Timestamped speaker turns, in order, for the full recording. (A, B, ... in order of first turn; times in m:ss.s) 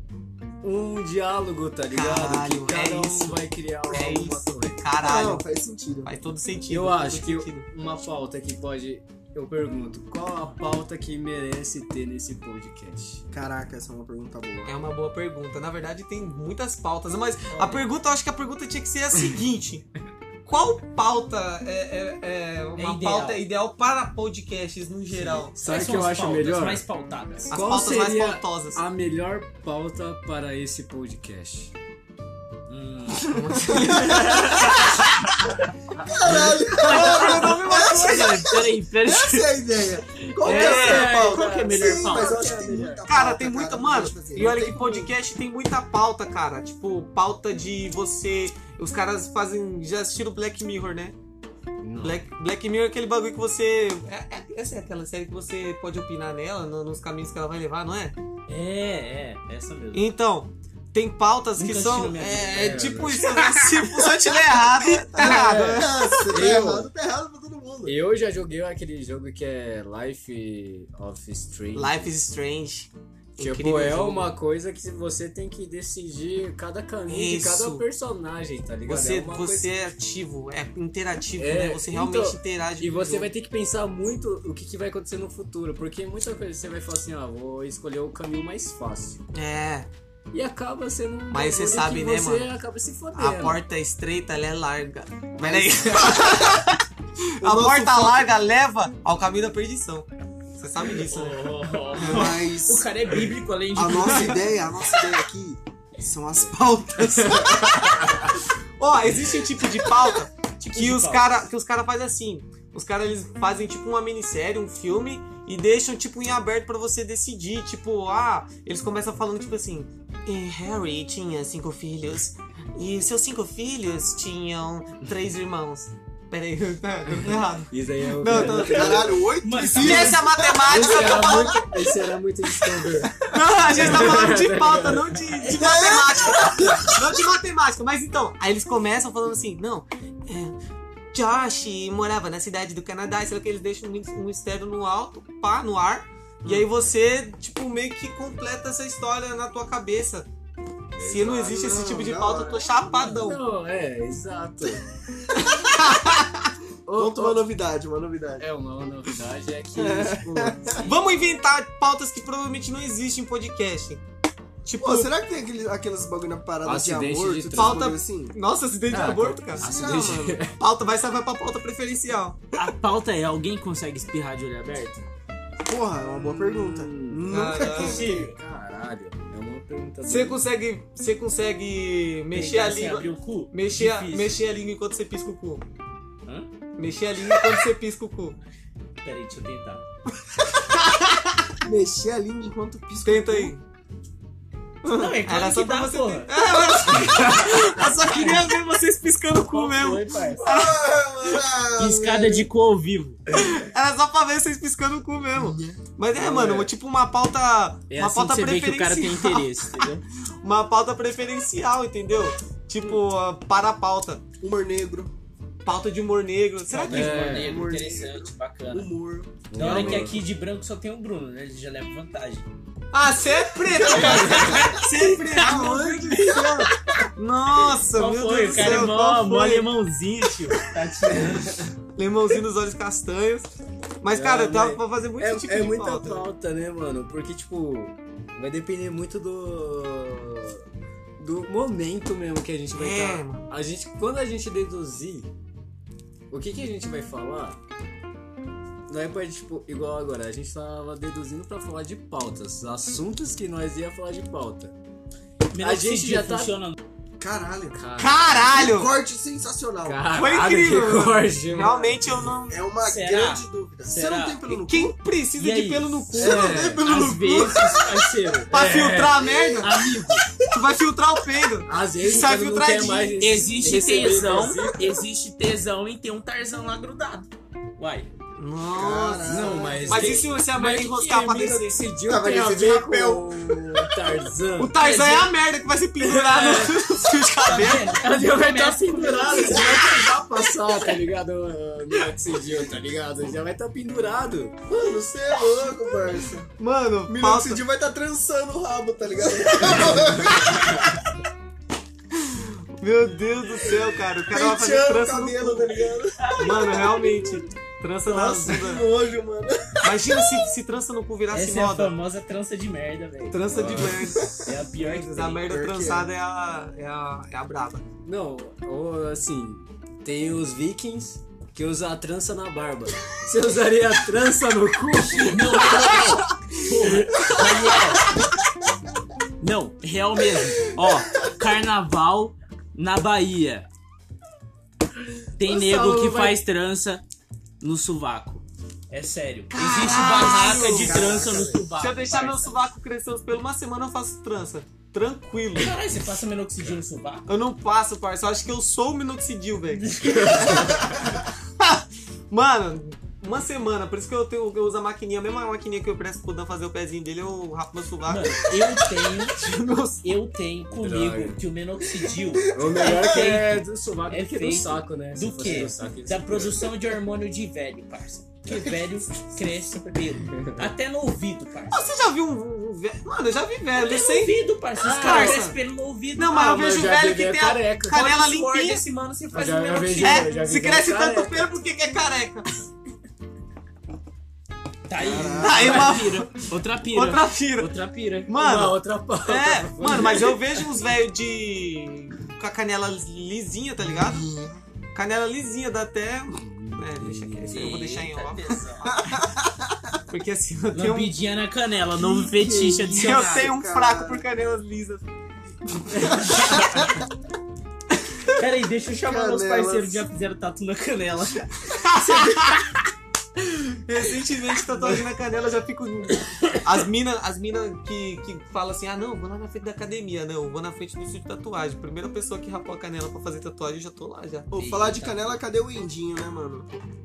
0:00.6-0:05.3 A
0:01.9-0:05.4 B
0:05.0-0:06.1 C
0:06.0-0:07.6 B
0:06.7-0:13.2 A
0:13.3-0:14.7 C
0:14.6-0:19.8 B
0:17.5-0:17.8 D
0:20.5-0:25.5 B
0:22.8-0:23.4 D
0:25.1-0:27.6 D
0:25.6-0:26.8 A
0:27.5-0:28.8 B
0:27.5-0:31.7 A
0:32.7-0:35.5 D
0:33.4-0:34.9 C
0:33.9-0:34.6 A
0:36.0-0:45.1 C
0:36.2-0:39.5 D
0:36.3-0:36.5 A
0:36.8-0:38.4 B
0:40.4-0:42.7 D
0:40.4-0:41.5 B
0:40.5-0:43.0 A
0:43.1-0:51.2 B
0:51.8-0:52.2 A
0:52.0-0:58.2 B
0:58.5-1:00.1 D
0:59.9-1:05.9 B
1:01.6-1:04.1 D
1:02.6-1:03.1 A
1:05.2-1:06.9 A
1:05.2-1:07.9 C
1:07.8-1:12.1 A
1:11.7-1:14.3 B
1:13.4-1:19.7 A
1:17.1-1:17.8 B
1:18.8-1:23.3 B
1:21.4-1:29.2 A
1:29.3-1:29.9 B
1:30.3-1:33.6 A
1:31.3-1:32.5 B
1:33.1-1:36.8 B
1:35.4-1:36.6 C
1:37.4-1:38.3 C
1:37.4-1:40.1 B
1:40.6-1:41.4 B
1:40.9-1:44.8 D
1:42.0-1:42.9 C
1:43.7-1:48.2 C
1:47.2-1:47.8 B
1:47.4-1:48.3 A
1:48.8-2:09.0 B
1:50.7-1:51.3 D
2:07.7-2:09.1 A
2:08.3-2:11.5 C
2:08.9-2:10.4 D
2:09.8-2:11.8 B
2:10.6-2:13.2 A
2:13.3-2:20.6 B
2:13.7-2:15.2 A
2:15.3-2:16.8 D
2:15.5-2:17.0 C
2:21.1-2:30.3 B
2:26.4-2:26.9 A
2:30.9-2:31.6 A
2:31.0-2:33.4 B
2:31.2-2:32.7 C
2:32.8-2:33.2 D
2:33.2-2:34.8 A
2:35.7-2:36.5 B
2:36.9-2:37.5 A
2:36.9-2:38.4 C
2:38.4-2:41.0 A
2:39.8-2:40.9 C
2:40.8-2:44.0 B
2:44.6-2:45.1 B
2:44.8-2:48.4 C
2:46.6-2:47.9 A
2:47.6-2:49.7 B
2:48.9-2:50.6 A
2:49.6-2:50.5 C
2:50.6-2:52.4 B
2:52.6-2:55.0 D
2:55.6-2:58.3 C
2:56.2-3:00.4 A
2:57.1-2:58.1 B
2:57.6-2:58.4 D
3:00.1-3:05.6 B
3:02.3-3:04.3 D
3:06.8-3:08.4 B
3:09.0-3:09.8 D
3:10.7-3:11.4 B
3:11.6-3:13.6 C
3:13.0-3:13.6 B
3:14.8-3:16.4 D
3:14.9-3:15.1 C
3:15.2-3:21.4 B
3:17.1-3:17.4 A
3:17.8-3:18.5 D
3:19.5-3:20.4 D
3:20.4-3:22.5 C
3:21.8-3:23.2 D
3:23.3-3:29.5 B
3:25.4-3:25.8 C
3:26.1-3:26.7 A
3:27.9-3:30.0 D
3:30.4-3:34.2 B
3:34.4-3:35.1 C
3:35.6-3:37.2 B
3:36.7-3:38.9 D
3:36.9-3:37.6 A
3:37.2-3:40.2 C
3:39.5-3:40.2 A
3:39.6-3:42.5 D
3:42.9-3:46.4 B
3:43.7-3:45.6 D
3:44.0-3:44.5 A
3:44.4-3:46.7 C
3:46.2-3:46.6 A
3:47.2-3:49.6 B
3:47.7-3:51.6 D
3:51.1-3:51.7 A
3:52.0-3:56.2 B
3:54.1-4:00.6 A
4:01.2-4:05.3 A
4:02.7-4:03.4 B
4:06.3-4:07.6 A
4:08.9-4:14.7 A
4:15.5-4:16.8 D
4:15.6-4:16.6 A
4:17.2-4:17.8 C
4:17.7-4:18.5 A
4:18.0-4:18.9 B
4:18.3-4:20.2 C
4:19.8-4:22.3 A
4:20.1-4:22.6 B
4:21.6-4:21.9 C
4:22.5-4:24.9 C
4:22.8-4:24.4 D
4:24.5-4:26.6 B
4:25.4-4:26.3 D
4:26.1-4:28.2 C
4:26.2-4:26.9 A
4:26.8-4:28.5 D
4:28.5-4:29.2 A
4:28.5-4:29.8 B
4:29.2-4:29.8 C
4:29.6-4:30.3 D
4:30.5-4:33.2 B
4:31.6-4:35.0 A
4:33.2-4:38.1 D
4:34.3-4:34.6 C
4:38.4-4:41.8 B
4:38.7-4:40.3 C
4:39.2-4:44.8 A
4:42.0-4:43.9 C
4:44.6-4:47.9 B
4:44.8-4:45.3 D
4:46.0-4:46.8 A
4:47.4-4:50.0 D
4:47.9-4:54.6 A
4:54.7-4:56.5 C
4:56.6-4:57.6 B
4:57.1-5:00.9 C
4:59.8-5:00.7 A
5:02.2-5:08.8 B
5:04.3-5:07.4 C
5:06.2-5:06.9 D
5:08.0-5:10.4 C
5:09.8-5:11.9 B
5:11.3-5:13.8 D
5:13.3-5:17.8 B
5:13.5-5:14.2 A
5:13.7-5:14.5 C
5:14.4-5:15.4 D
5:15.4-5:16.1 C
5:18.0-5:25.7 A
5:25.2-5:28.1 D
5:29.4-5:33.7 D
5:35.4-5:37.0 D
5:35.4-5:36.4 A
5:37.6-5:42.7 D
5:39.5-5:45.7 B
5:39.8-5:41.7 C
5:45.6-5:47.2 D
5:47.3-6:00.0 B
5:49.7-5:50.9 D
5:50.2-5:50.8 A
5:58.1-5:59.4 D
6:00.0-6:11.9 D
6:00.7-6:01.4 A
6:02.3-6:03.3 C
6:02.5-6:06.6 A
6:10.3-6:10.7 A
6:11.7-6:15.6 B
6:13.8-6:16.6 D
6:14.8-6:15.5 A
6:16.2-6:18.8 B
6:16.4-6:18.1 A
6:17.9-6:20.4 D
6:19.3-6:21.5 A
6:20.0-6:22.6 B
6:24.9-6:28.0 D
6:25.0-6:26.1 C
6:25.4-6:27.7 B
6:27.6-6:30.6 A
6:28.3-6:34.3 B
6:34.0-6:34.6 C
6:34.9-6:38.6 B
6:36.4-6:37.7 A
6:37.5-6:39.0 D
6:38.9-6:39.8 C
6:40.1-6:41.1 B
6:40.7-6:43.5 D
6:42.0-6:44.2 C
6:42.9-6:45.1 B
6:45.6-6:46.7 B
6:46.0-6:46.9 D
6:46.4-6:46.8 C
6:48.2-6:52.8 D
6:49.0-6:50.0 C
6:51.7-6:52.6 B
6:53.4-7:04.5 B
7:04.5-7:06.7 C
7:04.6-7:05.2 D